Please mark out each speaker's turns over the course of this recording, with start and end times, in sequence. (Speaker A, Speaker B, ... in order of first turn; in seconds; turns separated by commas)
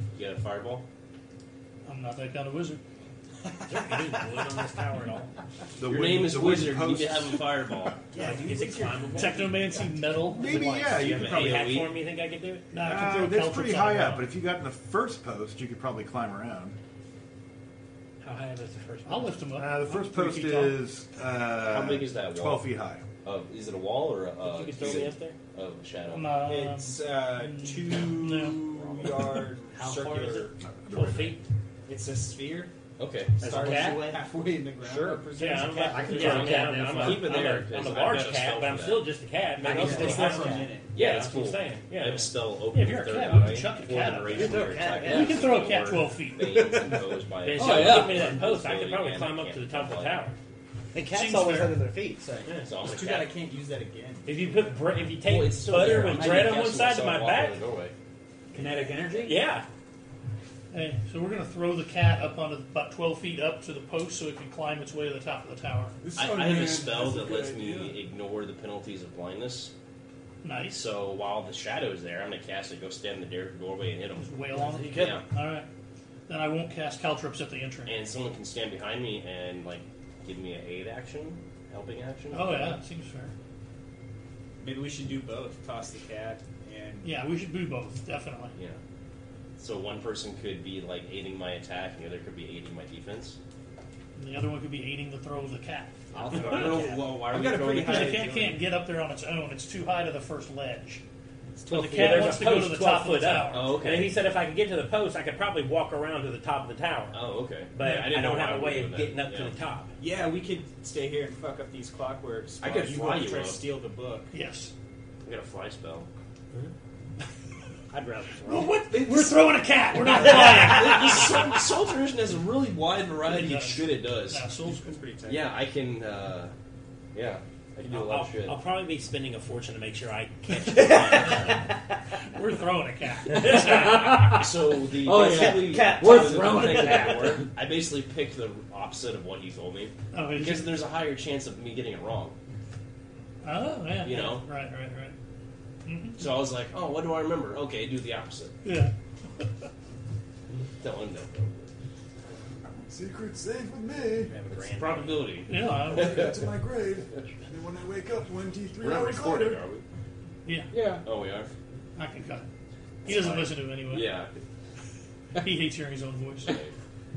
Speaker A: 0.1-0.8, Speaker B: 1.8-2.8, Speaker C: 3.7-5.3, Speaker D: 5.8-7.5, Speaker A: 5.8-8.1, Speaker E: 8.1-9.5, Speaker C: 8.1-9.8, Speaker B: 9.1-11.2, Speaker D: 10.3-11.7, Speaker A: 10.9-11.9, Speaker C: 11.0-12.7, Speaker B: 12.7-14.3, Speaker D: 12.7-16.8, Speaker C: 18.2-19.4, Speaker B: 19.0-20.8, Speaker D: 19.5-23.0, Speaker A: 21.6-22.7, Speaker A: 23.2-26.4, Speaker C: 24.4-25.4, Speaker D: 24.8-25.1, Speaker B: 26.1-29.3, Speaker E: 26.4-30.5, Speaker F: 29.8-30.5, Speaker C: 29.8-30.4, Speaker D: 30.6-31.4, Speaker C: 30.9-31.4, Speaker E: 31.9-32.7, Speaker A: 33.0-33.4, Speaker E: 33.4-36.8, Speaker F: 33.4-34.2, Speaker F: 34.8-37.5, Speaker C: 35.3-42.3, Speaker A: 36.0-39.1, Speaker E: 39.6-40.9, Speaker F: 39.6-40.7, Speaker A: 39.6-50.2, Speaker B: 42.7-46.8, Speaker G: 44.4-45.8, Speaker G: 46.5-47.1, Speaker C: 47.4-50.3, Speaker F: 47.6-48.4, Speaker G: 50.9-52.5, Speaker B: 51.1-51.8, Speaker A: 52.5-53.3, Speaker E: 52.8-55.0, Speaker C: 54.2-57.6, Speaker A: 55.2-57.9, Speaker E: 55.8-56.3, Speaker F: 58.5-59.5, Speaker E: 58.5-59.0, Speaker C: 59.1-59.6, Speaker B: 60.7-65.9, Speaker H: 66.0-68.0, Speaker A: 66.1-69.7, Speaker B: 70.4-70.8, Speaker A: 70.7-74.3, Speaker B: 74.1-75.7, Speaker A: 74.8-75.2, Speaker B: 76.3-78.0, Speaker A: 77.8-82.8, Speaker B: 82.3-83.3, Speaker E: 84.6-87.1, Speaker B: 87.0-88.5, Speaker A: 88.5-88.8, Speaker A: 89.6-93.4, Speaker B: 94.2-96.9, Speaker E: 96.1-98.6, Speaker A: 96.2-98.3, Speaker C: 96.3-97.1, Speaker B: 97.7-101.0, Speaker B: 101.7-103.8, Speaker C: 101.7-107.2, Speaker E: 101.8-102.2, Speaker A: 103.5-104.2, Speaker A: 107.1-109.5, Speaker C: 107.7-109.9, Speaker E: 110.0-114.3, Speaker A: 112.6-113.6, Speaker B: 114.3-114.7, Speaker A: 115.2-116.1, Speaker C: 117.9-118.8, Speaker B: 118.4-121.4, Speaker A: 119.9-124.5, Speaker B: 123.2-125.0, Speaker E: 124.7-125.5, Speaker A: 125.2-126.5, Speaker A: 127.1-128.6, Speaker C: 127.8-131.4, Speaker A: 130.6-131.6, Speaker B: 132.3-134.4, Speaker F: 133.3-137.5, Speaker A: 134.2-142.3, Speaker G: 135.2-137.4, Speaker B: 140.1-140.7, Speaker B: 143.4-145.1, Speaker A: 144.0-144.4, Speaker B: 145.8-146.3, Speaker A: 146.2-148.5, Speaker B: 148.6-148.9, Speaker A: 150.6-151.7, Speaker H: 152.9-154.4, Speaker A: 154.3-156.5, Speaker B: 155.3-156.4, Speaker H: 155.7-159.7, Speaker A: 158.8-159.8, Speaker B: 160.4-160.7, Speaker A: 160.7-161.5, Speaker B: 161.9-162.4, Speaker B: 163.0-164.1, Speaker A: 163.0-164.3, Speaker B: 165.3-166.6, Speaker A: 166.4-166.7